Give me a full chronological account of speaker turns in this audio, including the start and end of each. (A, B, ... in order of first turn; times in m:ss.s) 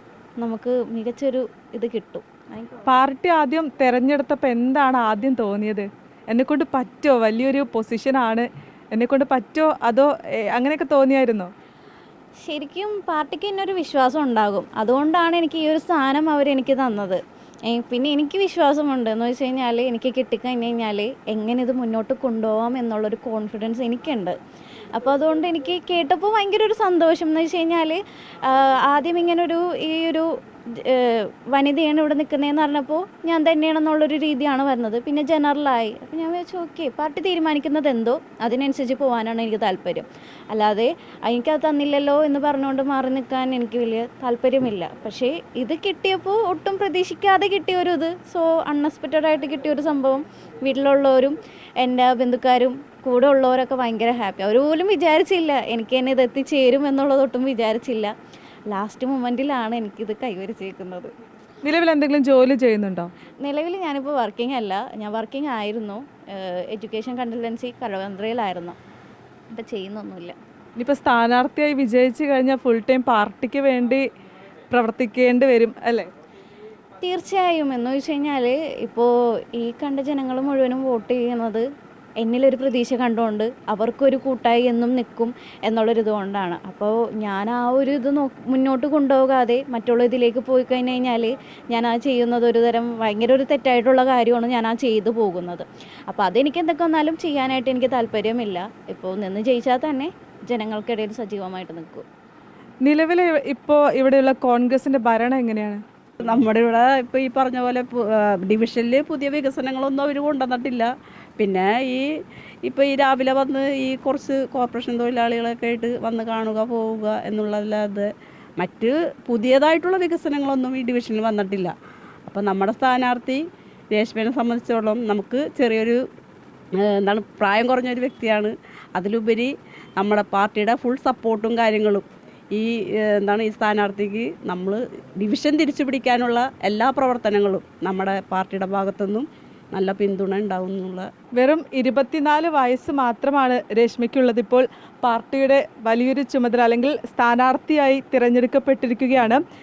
0:00.4-0:02.8 A
0:02.8-0:11.5 B
0:12.4-0:24.3 A
0:25.0-0:58.1 A
0:58.7-1:01.1 A
1:01.6-1:03.1 B
1:03.4-1:08.8 A
1:09.5-1:10.3 A
1:10.8-1:14.0 B
1:14.7-1:16.1 B
1:17.0-1:21.6 A
1:22.2-1:42.0 A
1:42.8-1:45.8 B
1:46.2-1:52.0 C
1:52.6-2:01.7 C
2:02.2-2:06.0 C
2:06.8-2:21.1 C
2:21.4-2:29.4 B